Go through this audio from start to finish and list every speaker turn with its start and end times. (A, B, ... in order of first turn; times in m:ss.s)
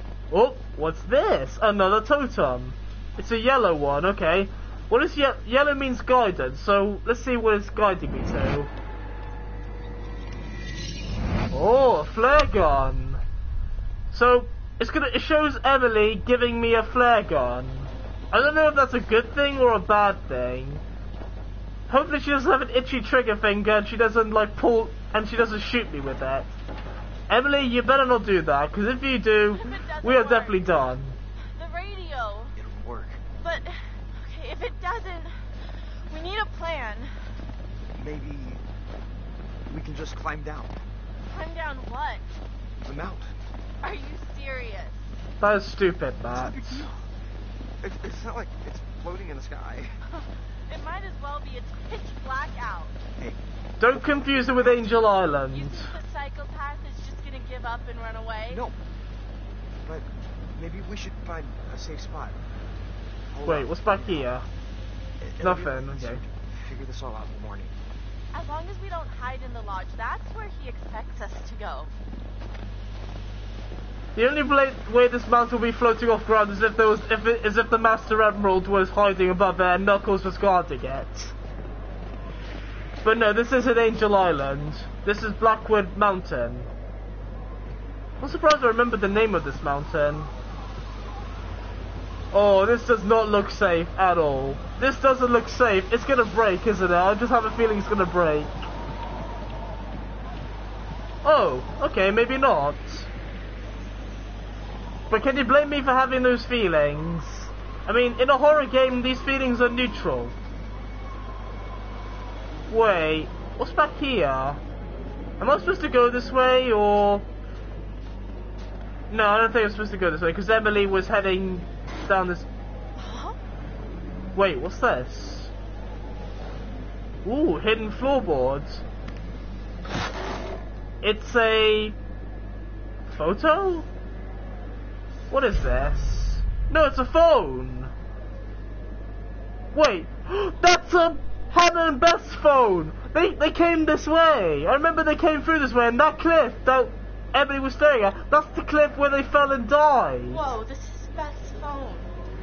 0:00.3-0:08.7 A
0:11.5-0:13.2 A
0:14.1-0:20.8 A
0:21.9-0:26.5 A
0:27.3-0:31.2 A
0:29.5-0:30.9 B
0:31.6-0:32.5 B
0:32.6-0:33.2 C
0:33.4-0:35.4 B
0:36.1-0:37.1 B
0:38.0-0:38.6 C
0:39.7-0:40.8 C
0:41.3-0:42.3 B
0:42.8-0:43.3 C
0:43.8-0:45.1 B
0:45.4-0:46.9 A
0:46.3-0:47.0 C
0:47.8-0:49.9 C
0:50.7-0:53.0 B
0:53.8-0:55.9 A
0:54.0-0:54.7 C
0:55.5-0:58.6 B
0:58.5-0:58.8 C
0:59.8-1:02.4 C
1:03.3-1:04.3 C
1:03.4-1:04.4 A
1:05.2-1:07.8 C
1:05.4-1:06.2 A
1:08.3-1:11.9 B
1:14.2-1:21.4 A
1:23.0-1:26.7 A
1:28.2-1:30.3 A
1:32.3-1:38.7 A
1:41.2-1:43.1 A
1:45.1-1:50.3 A
1:52.7-1:54.6 A
1:55.4-1:57.3 A
1:59.1-2:02.5 A
2:03.0-2:03.4 B
2:04.4-2:05.5 A
2:07.2-2:08.8 A
2:11.0-2:12.0 A
2:13.1-2:13.9 A
2:15.3-2:17.9 A
2:19.7-2:30.4 A
2:30.3-2:32.1 B